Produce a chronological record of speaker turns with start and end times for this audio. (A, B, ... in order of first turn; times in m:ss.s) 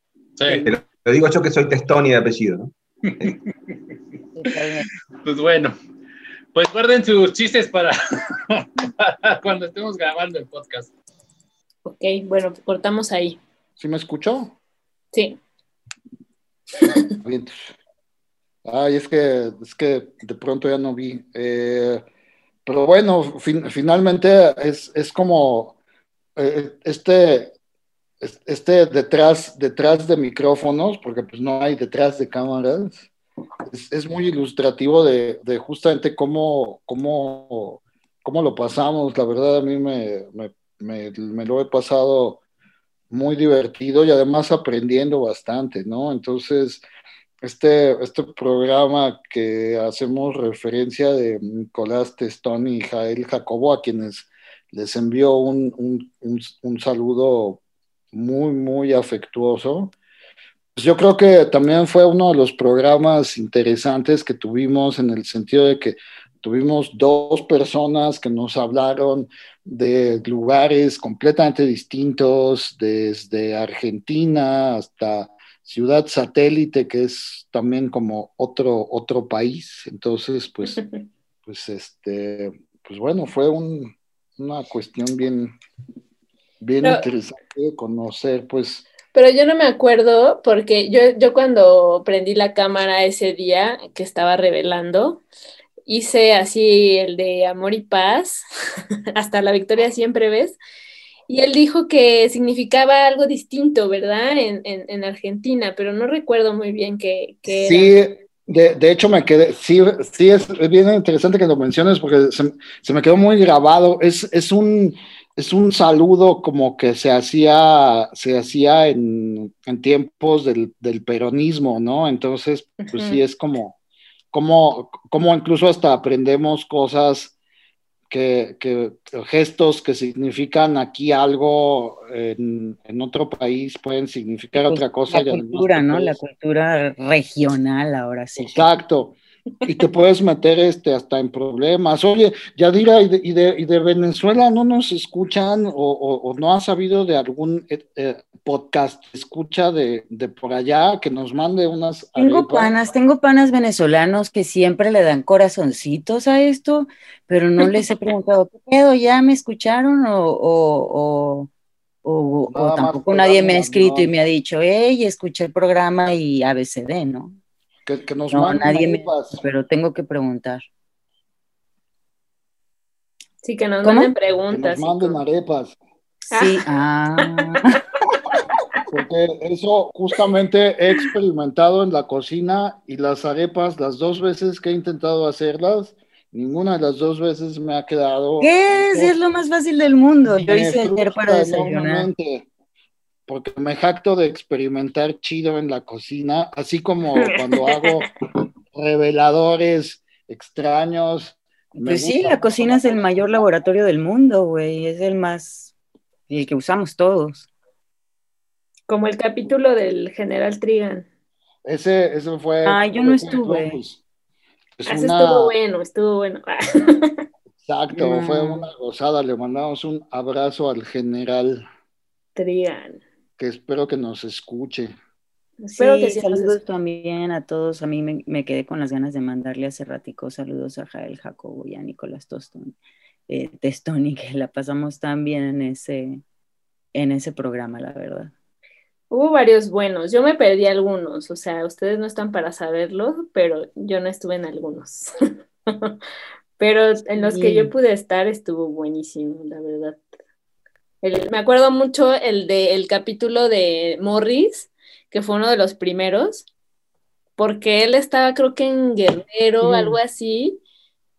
0:00.4-0:00.7 A
0:00.4-0:03.4 B
0:04.3-0:04.9 C
0:05.2-0:05.7 A
0:06.5-0:10.9 A
0:11.8-0:13.4 D
0:13.8-0:14.5 E
0:15.1-0:15.4 D
0:17.2-0:17.7 E
0:18.6-0:22.0 E
0:22.6-0:25.8 E
0:26.4-0:27.5 E
0:28.2-0:33.1 E
0:33.7-0:42.4 E
0:43.1-0:46.8 E
0:47.4-0:57.6 E
0:58.1-0:59.9 E
1:00.8-1:20.8 E
1:21.4-1:25.5 E
1:26.6-1:28.8 E
1:29.1-1:35.2 D
1:35.8-1:40.6 D
1:41.3-1:48.0 D
1:47.5-2:03.7 E
2:02.8-2:03.2 D
2:04.3-2:07.3 E
2:08.1-2:16.2 E
2:14.6-2:18.7 C
2:18.4-2:32.7 E
2:32.2-2:41.5 C
2:42.0-2:47.4 C
2:42.5-2:44.1 E
2:47.9-2:49.4 E
2:48.3-2:50.6 C
2:53.4-2:55.2 D
2:53.8-2:54.1 C
2:54.5-2:55.8 E
2:56.3-2:56.6 D
2:56.3-2:57.8 C
2:58.9-3:09.1 E
3:08.4-3:12.1 C
3:10.2-3:12.4 E
3:13.3-3:18.1 E
3:17.4-3:17.8 D
3:18.7-3:23.2 E
3:21.7-3:25.7 C
3:26.3-3:27.5 C
3:28.9-3:31.0 D
3:31.6-3:34.0 E
3:32.6-3:33.8 C
3:34.8-3:35.5 E
3:34.9-3:37.2 D
3:37.6-3:41.6 E
3:37.9-3:38.7 C
3:42.4-3:43.0 D
3:43.4-3:44.9 E
3:45.6-3:46.6 D
3:45.7-3:52.8 C
3:53.3-3:56.2 C
3:56.9-3:58.3 C
3:59.1-4:05.1 D
4:05.7-4:06.0 D
4:06.6-4:10.0 D
4:07.1-4:07.7 C
4:11.0-4:16.5 D
4:17.4-4:20.6 D
4:19.6-4:20.0 C